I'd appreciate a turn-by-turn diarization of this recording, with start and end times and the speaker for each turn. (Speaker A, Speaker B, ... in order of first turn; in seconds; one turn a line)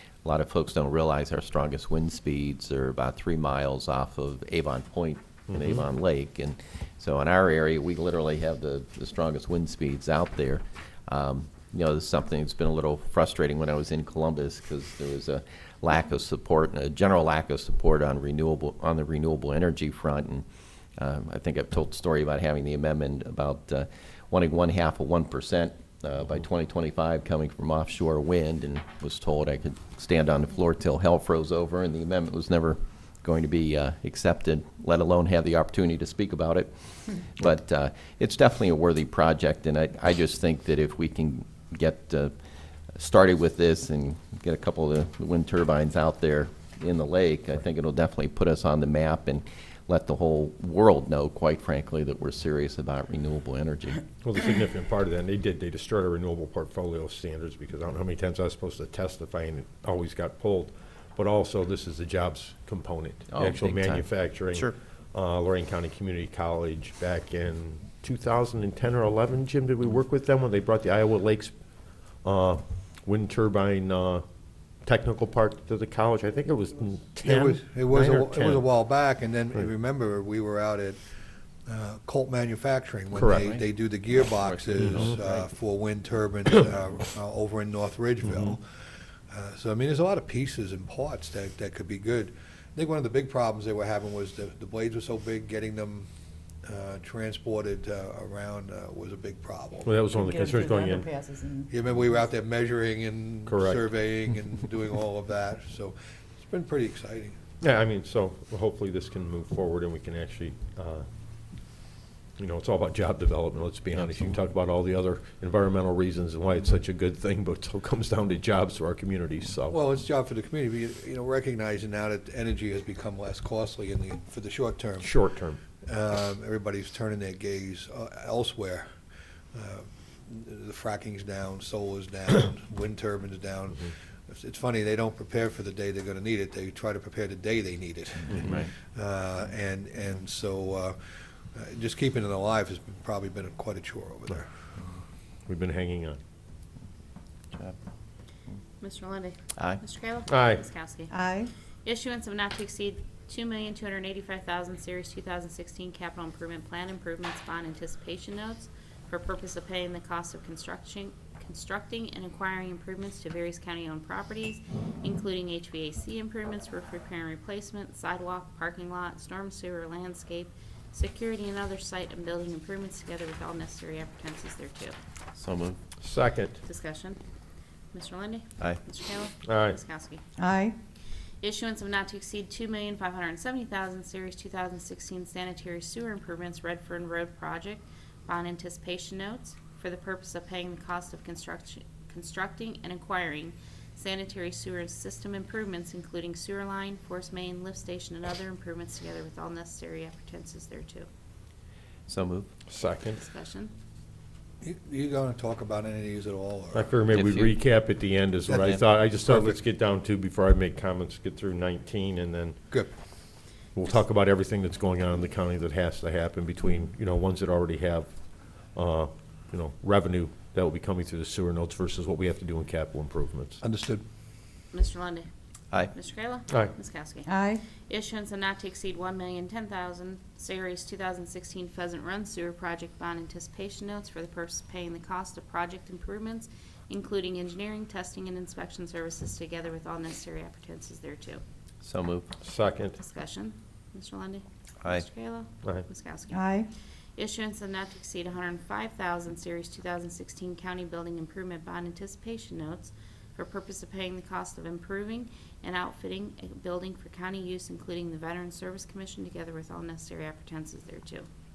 Speaker A: 0.2-20.4
Speaker B: 5.5-5.8
Speaker A: 21.0-42.3
Speaker A: 42.9-54.0
Speaker B: 54.2-78.7
Speaker A: 63.3-64.7
Speaker C: 77.2-81.0
Speaker C: 81.7-96.1
Speaker B: 83.1-83.5
Speaker A: 84.2-85.5
Speaker B: 84.8-85.2
Speaker B: 88.2-88.5
Speaker C: 96.6-99.9
Speaker B: 99.8-101.1
Speaker D: 100.1-101.7
Speaker C: 101.7-107.4
Speaker B: 103.5-103.8
Speaker B: 107.6-111.0
Speaker B: 112.4-119.8
Speaker C: 119.7-125.1
Speaker B: 125.0-125.6
Speaker C: 125.8-128.9
Speaker C: 129.5-141.0
Speaker A: 138.3-138.7
Speaker C: 141.5-144.6
Speaker B: 145.5-146.2
Speaker A: 147.5-147.8
Speaker E: 148.8-151.1
Speaker A: 149.6-149.8
Speaker B: 150.3-150.6
Speaker D: 151.1-151.5
Speaker E: 151.8-174.9
Speaker A: 175.3-175.8
Speaker B: 176.0-176.6
Speaker E: 176.6-177.2
Speaker E: 177.9-180.2
Speaker B: 179.4-179.8
Speaker D: 180.4-180.8
Speaker E: 181.4-201.1
Speaker A: 202.1-202.5
Speaker B: 202.7-203.2
Speaker E: 203.1-203.7
Speaker C: 204.6-207.0
Speaker B: 206.7-212.6
Speaker A: 207.1-207.6
Speaker C: 208.4-209.6
Speaker B: 213.7-223.6
Speaker C: 223.6-224.0
Speaker E: 224.7-225.3
Speaker E: 225.8-241.4
Speaker D: 227.2-227.6
Speaker A: 241.8-242.3
Speaker B: 242.4-242.9
Speaker E: 242.9-246.4
Speaker D: 246.3-246.7
Speaker E: 247.2-261.2